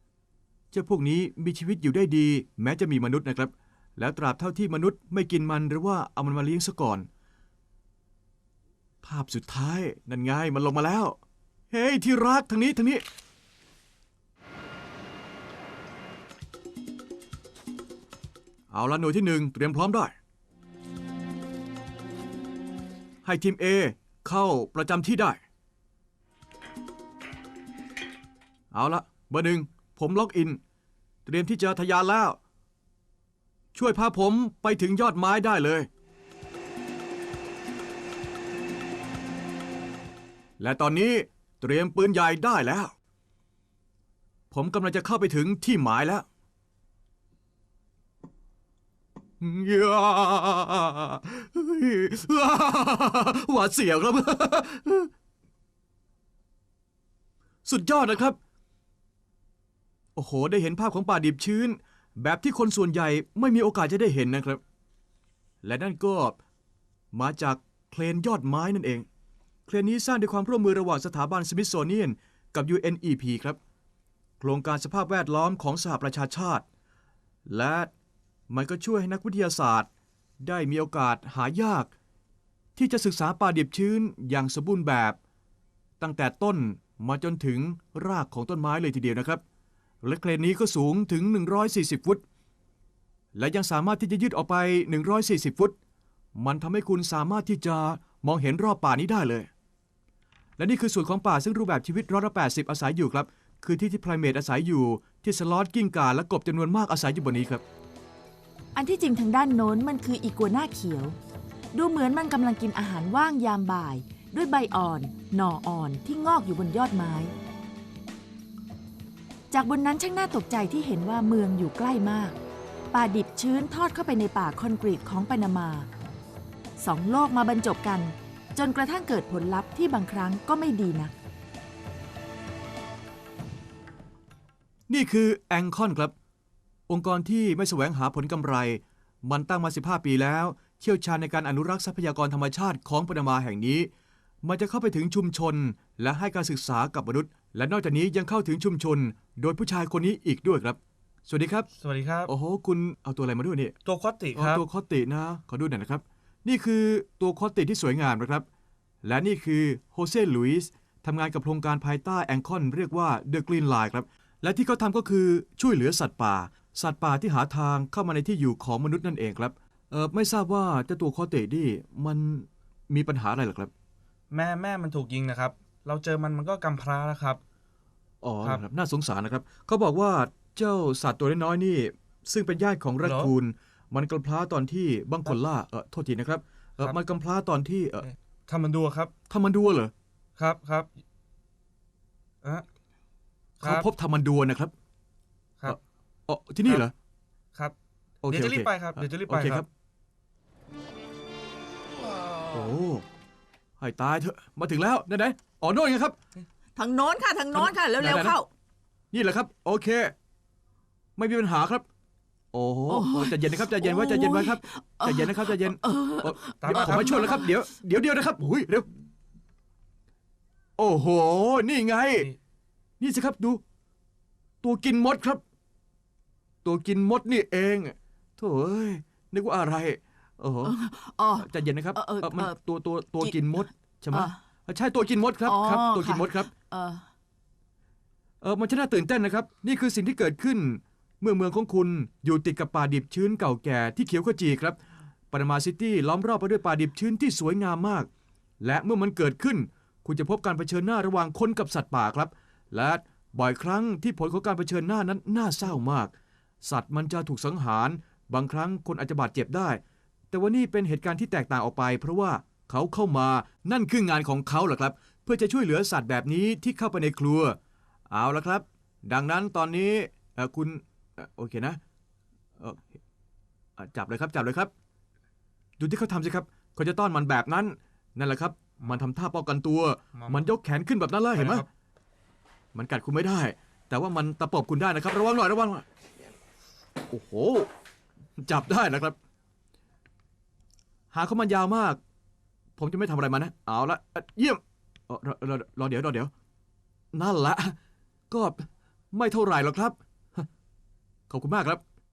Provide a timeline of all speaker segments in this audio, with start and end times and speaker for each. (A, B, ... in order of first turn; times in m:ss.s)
0:00.7-0:07.1 A
0:09.0-0:11.2 A
0:11.7-0:13.0 A
0:18.7-0:20.1 A
0:23.2-0:25.4 A
0:28.7-0:30.6 A
0:31.2-0:32.4 A
0:33.7-0:35.9 A
0:40.6-0:42.9 A
0:44.5-0:46.2 A
0:49.4-0:55.1 A
0:57.6-0:58.4 A
1:00.2-1:04.6 A
1:05.6-1:06.4 A
1:07.1-1:09.0 A
1:09.7-1:13.6 A
1:14.4-1:16.6 A
1:17.4-1:17.9 A
1:18.5-1:19.9 A
1:20.4-1:21.9 A
1:22.8-1:25.2 A
1:26.0-1:29.4 A
1:30.0-1:32.2 A
1:33.3-1:35.7 A
1:36.3-1:39.5 A
1:40.6-1:47.6 A
1:48.7-1:51.2 B
1:51.7-1:57.3 B
1:59.5-2:02.4 B
2:02.9-2:05.9 B
2:06.8-2:11.1 B
2:14.9-2:16.1 A
2:16.9-2:23.9 A
2:24.4-2:31.7 A
2:31.7-2:32.3 C
2:32.3-2:33.7 A
2:33.8-2:34.6 C
2:34.3-2:38.4 A
2:39.0-2:53.7 A
2:54.3-2:57.4 C
2:58.2-3:08.1 A
3:03.0-3:03.3 C
3:08.5-3:09.1 C
3:09.3-3:09.9 A
3:10.4-3:10.9 C
3:13.6-3:13.8 C
3:13.6-3:14.7 A
3:15.7-3:16.9 A
3:18.2-3:19.7 A
3:18.3-3:19.6 C
3:22.5-3:23.0 A
3:23.8-3:26.2 A
3:26.8-3:28.5 B
3:27.5-3:28.4 A
3:29.1-3:30.1 A
3:31.2-3:31.8 A
3:32.5-3:38.9 A
3:32.9-3:37.5 B
3:36.6-3:37.1 C
3:40.8-3:42.3 A
3:43.0-3:43.6 A
3:44.6-3:45.4 A
3:46.6-3:50.8 A
3:50.6-3:52.5 B
3:51.4-3:56.5 A
3:55.4-3:57.0 B
3:58.4-4:04.8 A
4:05.3-4:08.1 A
4:08.6-4:16.1 A
4:16.6-4:19.8 A
4:20.3-4:27.6 A
4:28.1-4:31.8 A
4:32.6-4:33.0 A
4:33.8-4:34.7 A
4:35.8-4:41.7 A
4:40.2-4:40.4 C
4:41.3-4:41.6 C
4:42.7-4:45.8 A
4:47.1-4:47.7 A
4:48.4-4:49.2 A
4:51.1-4:52.0 A
4:52.8-4:56.3 A
4:57.1-4:57.7 A
4:58.3-5:00.5 A
5:01.3-5:01.8 A